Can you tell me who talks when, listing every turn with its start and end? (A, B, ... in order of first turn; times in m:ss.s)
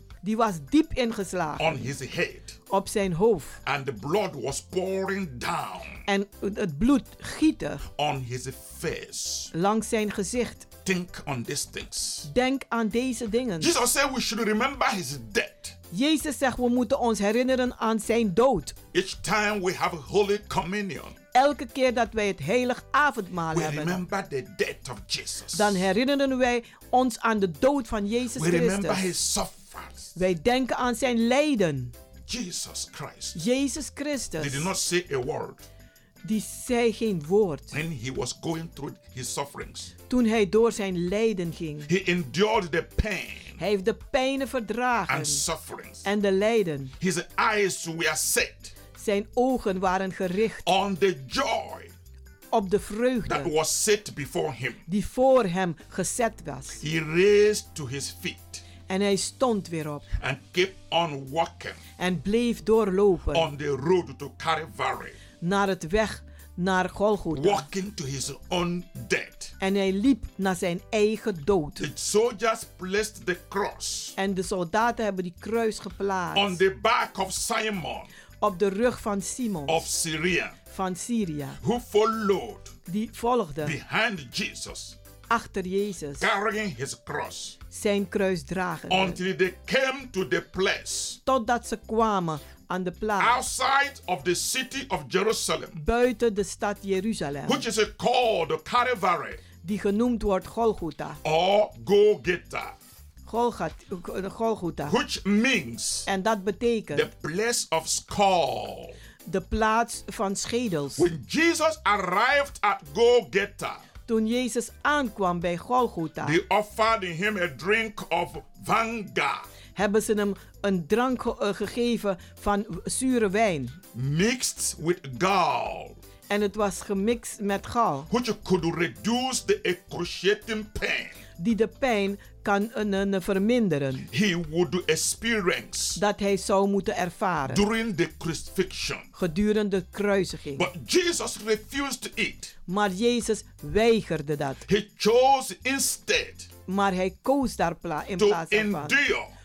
0:00.2-0:01.9 A
0:01.6-0:02.6 B
0:02.7-0:03.6 A
0:03.6-0:06.0 B
0:06.1-0:07.8 A
0:07.9-0:09.5 B
0:09.5-0:10.7 A
0:10.8-0:12.3 B
0:12.2-0:13.7 A
0:13.6-0:15.8 B
0:15.9-0:18.8 A
0:18.9-0:21.2 B
0:21.3-0:24.0 A
0:23.5-0:25.8 B
0:25.6-0:29.1 A
0:28.4-0:30.1 B
0:30.2-0:31.9 A
0:32.3-0:33.4 B
0:33.4-0:34.7 A
0:34.4-0:35.7 B
0:36.2-0:37.7 A
0:37.7-0:39.9 B
0:40.1-0:41.9 A
0:41.9-0:43.6 B
0:43.6-0:45.4 A
0:45.1-0:46.0 B
0:46.0-0:46.9 A
0:47.0-0:48.7 B
0:49.0-0:50.7 A
0:50.6-0:51.9 B
0:52.5-0:53.5 A
0:53.3-0:54.8 B
0:54.9-0:56.8 A
0:56.8-0:58.6 B
0:58.9-1:00.0 A
1:00.2-1:01.8 B
1:02.0-1:03.5 A
1:03.3-1:05.2 B
1:05.4-1:07.7 A
1:07.3-1:09.6 B
1:09.6-1:11.9 A
1:11.8-1:14.2 B
1:14.2-1:16.6 A
1:16.3-1:18.1 B
1:18.4-1:19.8 A
1:19.7-1:20.6 B
1:20.7-1:21.6 A
1:21.6-1:22.8 B
1:22.9-1:23.8 A
1:23.6-1:25.0 B
1:25.3-1:26.3 A
1:26.2-1:27.6 B
1:27.7-1:29.2 A
1:28.9-1:31.2 B
1:31.3-1:33.4 A
1:33.2-1:35.8 B
1:35.8-1:37.6 A
1:37.5-1:39.4 B
1:39.6-1:41.2 A
1:41.2-1:42.8 B
1:43.3-1:45.0 A
1:44.9-1:46.1 B
1:46.1-1:47.1 A
1:46.9-1:49.0 B
1:49.3-1:51.1 A
1:51.0-1:53.8 B
1:54.1-1:56.4 A
1:56.2-1:59.5 B
1:59.8-2:03.8 A
2:03.9-2:06.0 B
2:06.3-2:08.1 A
2:08.1-2:11.2 B
2:11.4-2:14.1 A
2:14.1-2:16.0 B
2:16.0-2:17.6 A
2:17.5-2:19.1 B
2:19.2-2:20.7 A
2:20.6-2:22.5 B
2:22.7-2:24.6 A
2:24.7-2:26.5 B
2:26.7-2:29.0 A
2:28.2-2:29.3 B